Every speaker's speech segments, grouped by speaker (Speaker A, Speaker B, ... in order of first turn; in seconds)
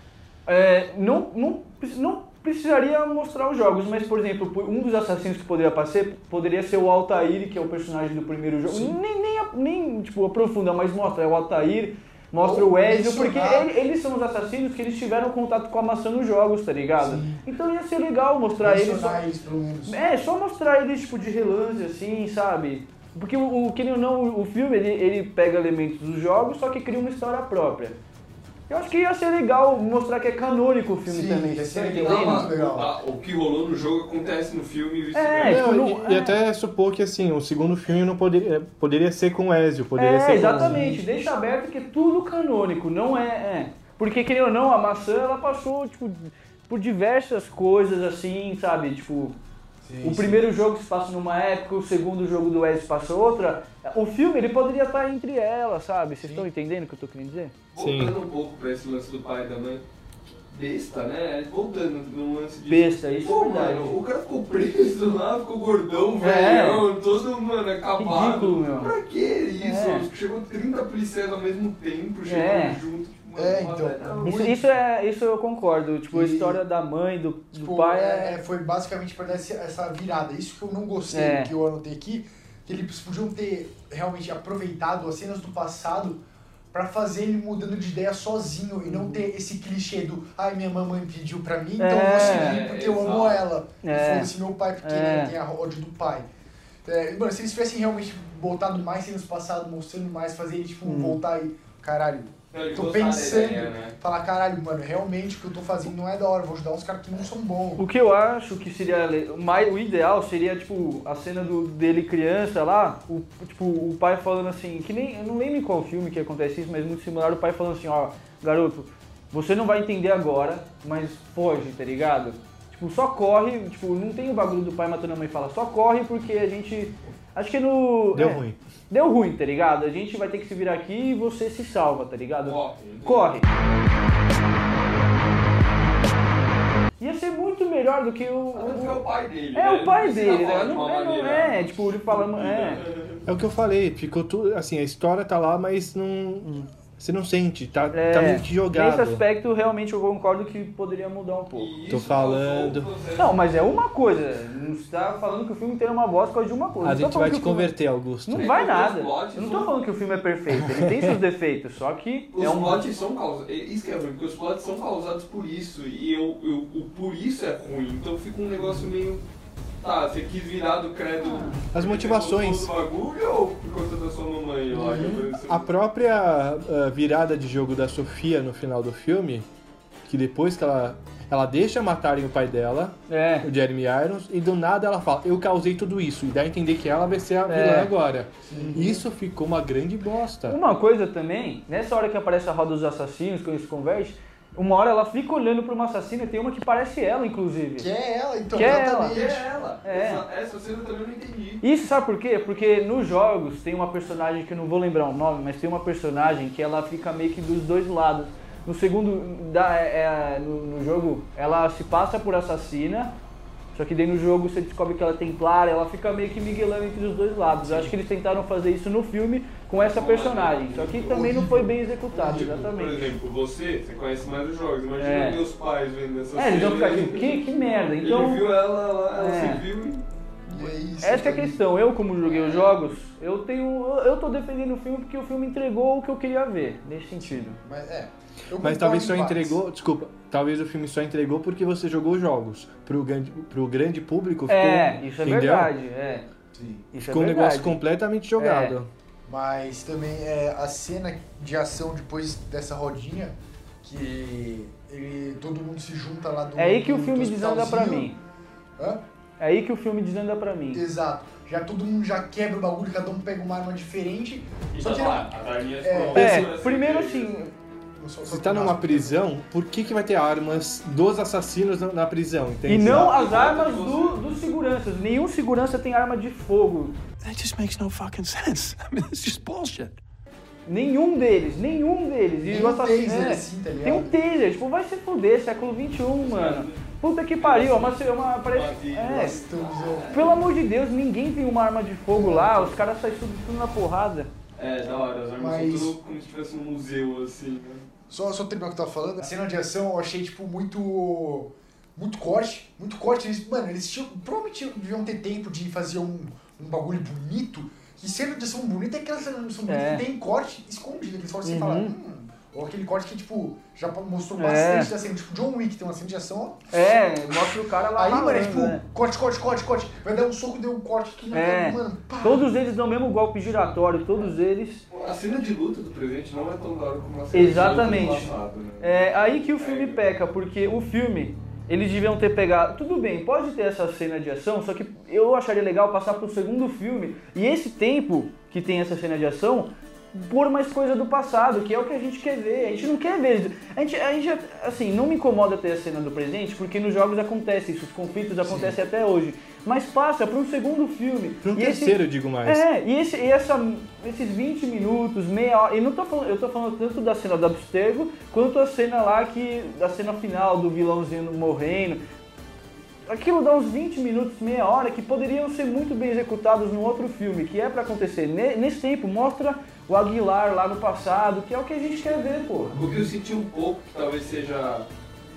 Speaker A: 0.5-19.2, 19.9-28.0, 28.7-32.5, 35.1-36.4, 40.0-49.4, 50.0-57.5, 62.7-64.0, 66.2-66.8, 68.0-68.9, 69.6-70.1, 72.3-72.8, 74.2-78.4, 81.1-81.5, 88.8-89.2, 91.8-92.6, 93.8-95.3, 100.8-101.2, 107.8-133.5, 137.0-139.0, 139.5-142.8, 147.9-151.7, 153.2-157.7, 158.2-162.8, 171.2-171.6, 174.8-175.2, 183.1-183.5, 187.5-187.9, 190.5-197.9, 198.5-199.2, 199.8-200.2, 201.6-213.1, 213.7-223.1, 225.0-225.4, 226.3-228.4, 229.2-229.6, 231.0-237.6, 244.5-246.3, 246.9-247.8, 248.4-248.8, 256.6-258.1, 259.4-260.8, 266.1-267.5, 272.6-276.9, 280.7-289.4, 290.1-294.3, 309.7-310.0, 311.4-311.9, 314.4-314.9, 316.7-318.8, 321.3-324.8, 327.3-362.0, 363.1-372.8
Speaker B: 8.7-8.9, 12.4-13.7, 17.0-17.4, 18.6-20.0, 31.1-32.9, 40.6-41.0, 49.8-50.4, 56.2-56.5, 73.3-74.7, 76.1-76.6, 77.5-86.2, 86.7-96.3, 96.8-107.8, 174.7-175.2, 188.5-189.0, 197.8-199.5, 217.6-217.9, 221.1-222.5, 230.5-231.6, 232.3-232.7, 237.2-239.6, 246.5-246.8, 249.2-258.1, 260.7-265.3, 265.8-266.4, 268.0-269.2, 282.4-284.2, 289.1-290.4, 292.1-292.8, 295.4-295.9, 298.1-316.6, 317.9-322.5, 348.4-348.8, 372.7-373.1
Speaker C: 32.0-35.7, 57.7-59.8, 60.5-74.4, 92.1-93.4, 102.5-103.9, 132.4-133.4, 138.5-143.2, 151.5-153.8, 158.4-160.0, 162.3-169.2, 169.8-175.7, 199.1-201.6, 219.8-221.2, 222.1-227.4, 228.0-230.0, 264.7-267.3, 273.0-274.2, 286.2-286.9, 287.4-290.4, 294.6-297.8, 324.9-330.0, 372.7-374.9
Speaker D: 35.4-40.9, 57.8-58.1, 128.1-128.6, 143.3-149.2, 151.9-152.9, 156.8-158.5, 160.5-161.2, 171.7-172.7, 175.4-179.5, 180.0-190.6, 238.6-245.7, 247.1-248.9, 268.2-273.1, 351.4-352.6
Speaker E: 277.2-279.9